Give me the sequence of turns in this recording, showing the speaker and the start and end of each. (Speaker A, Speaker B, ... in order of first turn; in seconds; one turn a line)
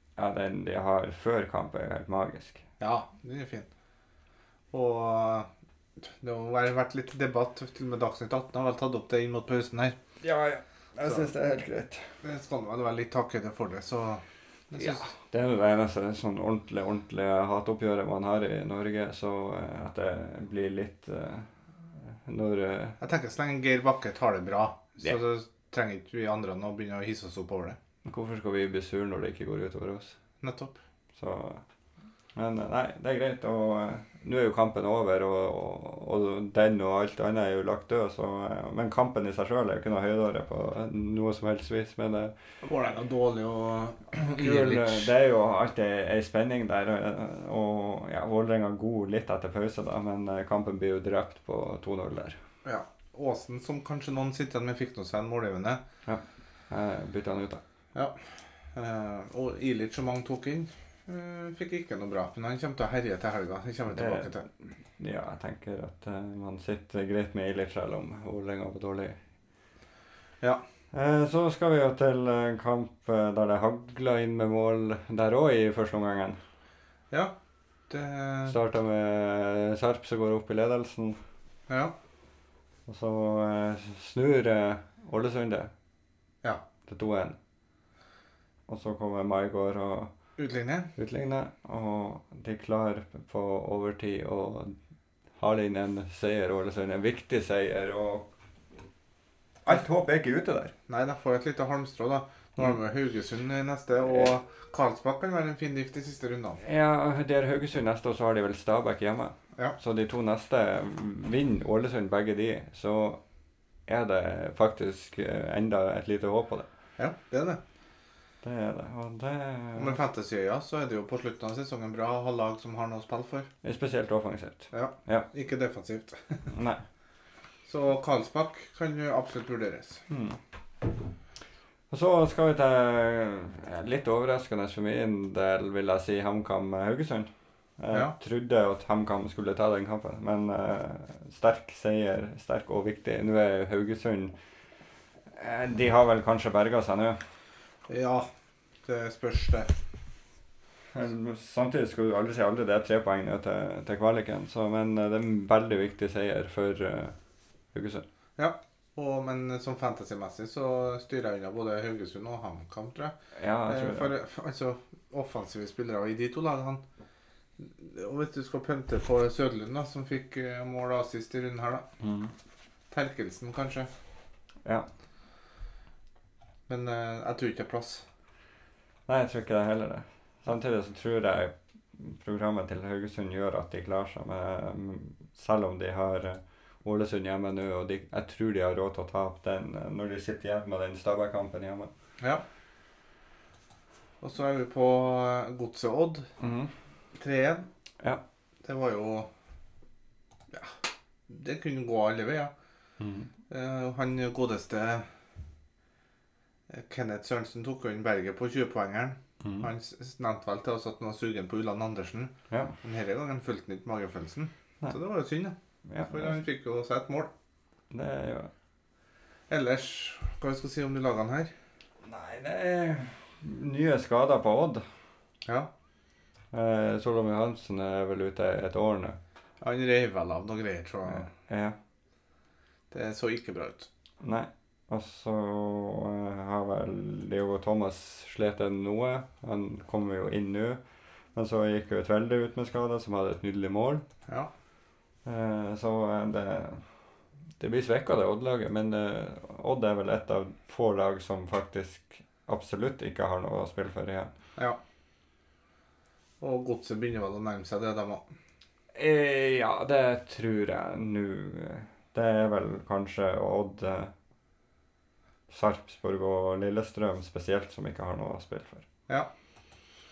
Speaker A: 0.2-2.6
Speaker B: 2.8-3.7
Speaker B: 4.7-5.5
Speaker B: 6.0-10.0
Speaker A: 10.2-12.0
Speaker B: 12.2-15.1
Speaker A: 14.8-23.0
Speaker B: 23.0-27.8
Speaker A: 28.0-30.2
Speaker B: 30.4-30.8
Speaker A: 31.1-31.6
Speaker A: 32.3-42.3
Speaker B: 42.6-45.1
Speaker A: 44.1-52.4
Speaker B: 52.6-55.8
Speaker A: 56.0-57.6
Speaker B: 58.7-64.5
Speaker A: 63.9-64.3
Speaker A: 65.0-69.2
Speaker A: 70.9-76.4
Speaker B: 77.9-78.6
Speaker A: 78.5-81.2
Speaker B: 81.7-81.9
Speaker A: 82.9-85.7
Speaker A: 86.9-87.4
Speaker A: 88.7-90.1
Speaker B: 90.4-90.9
Speaker A: 91.0-94.7
Speaker A: 95.3-98.3
Speaker A: 99.6-100.7
Speaker B: 100.9-106.6
Speaker A: 106.6-113.2
Speaker A: 113.9-116.7
Speaker B: 117.0-117.6
Speaker A: 118.4-120.0
Speaker B: 119.8-123.5
Speaker A: 123.6-125.3
Speaker B: 124.7-126.5
Speaker A: 126.5-126.8
Speaker B: 127.7-130.0
Speaker A: 130.1-130.4
Speaker A: 131.9-144.3
Speaker A: 145.3-147.2
Speaker B: 147.9-148.3
Speaker B: 148.8-149.7
Speaker A: 150.9-157.1
Speaker A: 157.7-158.0
Speaker B: 158.4-163.1
Speaker A: 163.3-164.1
Speaker B: 163.7-166.8
Speaker B: 167.6-171.8
Speaker A: 172.0-172.3
Speaker B: 172.9-173.9
Speaker B: 176.7-178.0
Speaker A: 179.1-191.9
Speaker B: 194.2-196.3
Speaker A: 196.4-196.7
Speaker B: 197.1-197.7
Speaker B: 198.6-199.3
Speaker B: 201.3-202.5
Speaker A: 203.0-203.3
Speaker B: 203.5-205.1
Speaker B: 206.7-215.5
Speaker A: 209.4-209.7
Speaker A: 212.5-212.8
Speaker A: 215.8-216.3
Speaker B: 216.1-217.3
Speaker A: 217.9-218.5
Speaker B: 219.5-221.5
Speaker A: 222.0-224.8
Speaker A: 226.5-229.2
Speaker B: 229.6-231.3
Speaker A: 231.1-231.8
Speaker B: 232.9-233.9
Speaker A: 234.2-240.8
Speaker A: 241.3-244.0
Speaker A: 245.2-246.8
Speaker A: 247.6-254.3
Speaker B: 256.4-258.3
Speaker A: 258.9-264.1
Speaker A: 265.5-268.9